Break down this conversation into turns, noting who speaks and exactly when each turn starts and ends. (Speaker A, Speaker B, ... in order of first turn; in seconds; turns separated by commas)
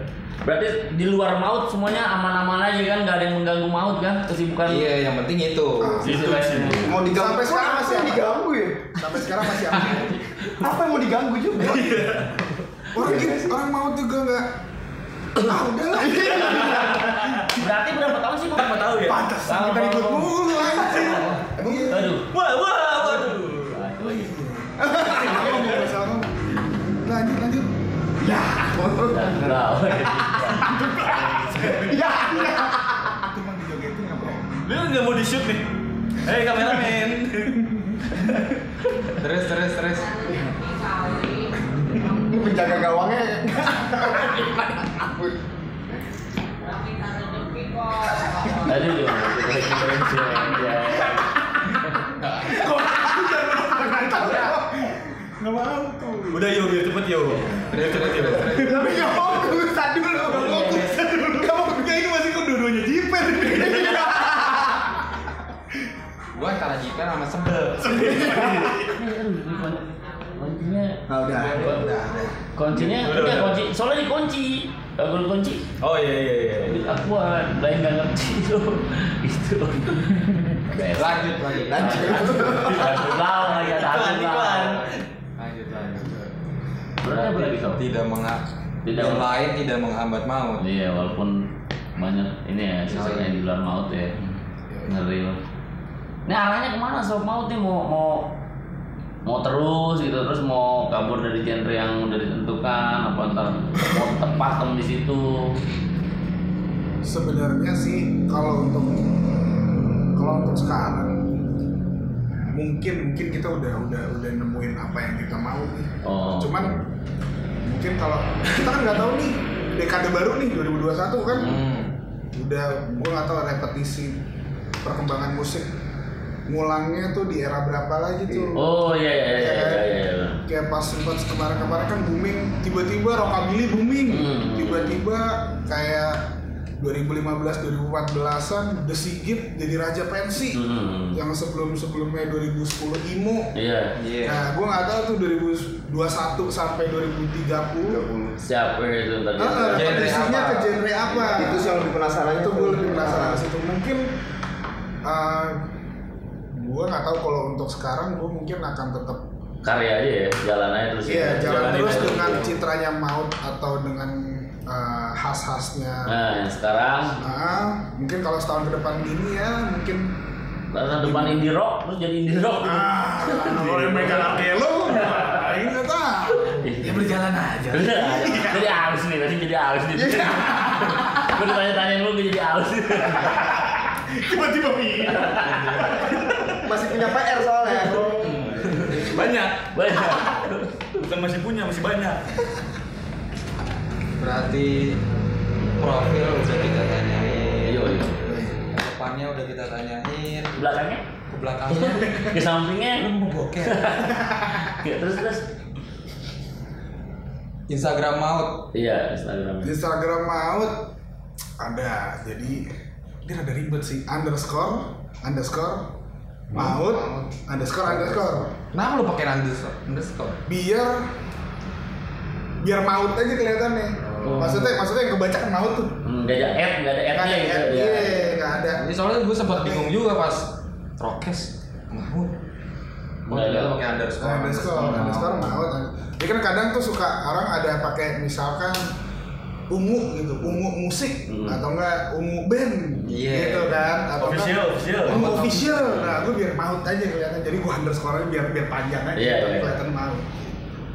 Speaker A: 0.4-4.9, Speaker B: 4.7-6.0, Speaker C: 5.8-6.3, Speaker A: 6.0-7.0, Speaker D: 6.0-6.8, Speaker E: 6.8-9.1, Speaker C: 7.0-8.4, Speaker C: 8.9-10.2, Speaker E: 10.6-12.1, Speaker D: 11.6-12.4, Speaker C: 12.9-14.5, Speaker E: 12.9-13.6, Speaker C: 15.4-17.4, Speaker E: 16.0-17.1, Speaker D: 16.7-17.4, Speaker A: 17.4-22.3, Speaker D: 18.5-19.3, Speaker C: 19.0-22.2, Speaker E: 20.6-22.1, Speaker D: 22.2-23.9, Speaker A: 23.0-24.4, Speaker C: 24.0-26.3, Speaker E: 24.8-25.6, Speaker C: 27.0-27.7, Speaker E: 28.2-30.5, Speaker A: 29.1-32.0, Speaker C: 30.7-34.6, Speaker E: 31.7-33.2, Speaker D: 34.6-35.7, Speaker D: 36.2-38.5, Speaker C: 36.5-36.9, Speaker C: 37.4-38.1, Speaker B: 39.2-40.2, Speaker E: 41.9-45.4, Speaker A: 48.6-51.2, Speaker B: 52.3-52.5, Speaker C: 52.4-56.5, Speaker D: 56.3-58.5, Speaker B: 57.6-60.9, Speaker E: 58.5-61.0, Speaker C: 58.5-64.9, Speaker E: 63.5-64.6, Speaker B: 66.3-68.2, Speaker D: 67.7-68.9, Speaker C: 67.9-68.7, Speaker A: 68.2-72.0, Speaker E: 71.1-71.7, Speaker C: 71.1-72.8, Speaker A: 72.5-75.6, Speaker D: 72.8-73.6, Speaker D: 75.8-76.8, Speaker A: 76.7-84.8, Speaker B: 80.9-82.8, Speaker E: 81.7-83.0, Speaker D: 83.6-85.0, Speaker B: 84.6-86.2, Speaker C: 85.9-86.3, Speaker A: 87.0-87.8, Speaker B: 87.0-90.6, Speaker A: 88.8-89.3, Speaker A: 90.6-94.1, Speaker B: 92.9-93.3, Speaker A: 94.9-95.4, Speaker A: 96.3-98.3, Speaker A: 99.2-105.5, Speaker C: 107.0-109.4, Speaker C: 110.1-111.4, Speaker C: 112.5-116.8, Speaker A: 116.0-116.7, Speaker C: 117.6-121.6, Speaker B: 121.3-121.9, Speaker C: 122.3-124.2, Speaker C: 124.8-125.7, Speaker C: 126.5-128.7, Speaker A: 128.5-130.4, Speaker C: 129.3-129.8, Speaker C: 130.4-136.2, Speaker A: 134.1-135.0, Speaker C: 136.8-143.5, Speaker A: 140.5-141.2, Speaker A: 143.5-143.9, Speaker B: 143.9-144.4, Speaker C: 144.2-148.0, Speaker E: 147.9-148.4, Speaker A: 148.4-151.6, Speaker C: 149.4-154.1, Speaker B: 149.7-150.9, Speaker E: 151.3-153.4, Speaker C: 155.0-155.7, Speaker C: 156.5-159.2, Speaker A: 159.6-162.5, Speaker C: 161.0-166.1, Speaker D: 161.4-162.3, Speaker A: 166.1-167.2, Speaker C: 167.2-170.1, Speaker A: 170.7-174.3, Speaker C: 170.9-171.4, Speaker C: 172.6-178.8, Speaker D: 173.6-174.6, Speaker A: 175.0-175.4, Speaker A: 176.5-177.1, Speaker D: 176.9-177.6, Speaker A: 177.7-183.8, Speaker E: 179.9-180.6, Speaker C: 180.2-181.1, Speaker C: 183.4-186.1, Speaker A: 185.0-185.7, Speaker D: 185.4-186.6, Speaker E: 186.6-189.1, Speaker D: 188.2-190.3, Speaker B: 188.7-189.3, Speaker A: 189.7-191.0, Speaker D: 190.9-192.2, Speaker B: 194.2-195.0, Speaker B: 195.8-200.5, Speaker A: 197.6-198.3, Speaker C: 198.2-198.6, Speaker A: 200.6-201.0, Speaker B: 201.3-202.3, Speaker A: 201.7-203.1, Speaker B: 202.9-204.2, Speaker A: 203.6-205.4, Speaker B: 207.7-208.7, Speaker A: 208.7-209.7, Speaker C: 209.6-210.9, Speaker C: 211.6-212.7, Speaker C: 213.2-215.8, Speaker B: 216.5-217.3, Speaker C: 216.5-218.5, Speaker B: 217.9-220.4, Speaker C: 220.4-221.1, Speaker C: 222.6-226.0, Speaker B: 224.0-224.5, Speaker A: 224.2-224.7, Speaker A: 226.0-228.4, Speaker C: 227.1-228.8, Speaker B: 228.7-232.3, Speaker B: 233.3-235.6, Speaker A: 233.3-233.8, Speaker C: 234.2-238.9, Speaker C: 239.7-250.6, Speaker A: 241.3-241.6, Speaker B: 243.1-243.8, Speaker D: 244.2-245.3, Speaker B: 245.0-246.3, Speaker A: 249.1-249.8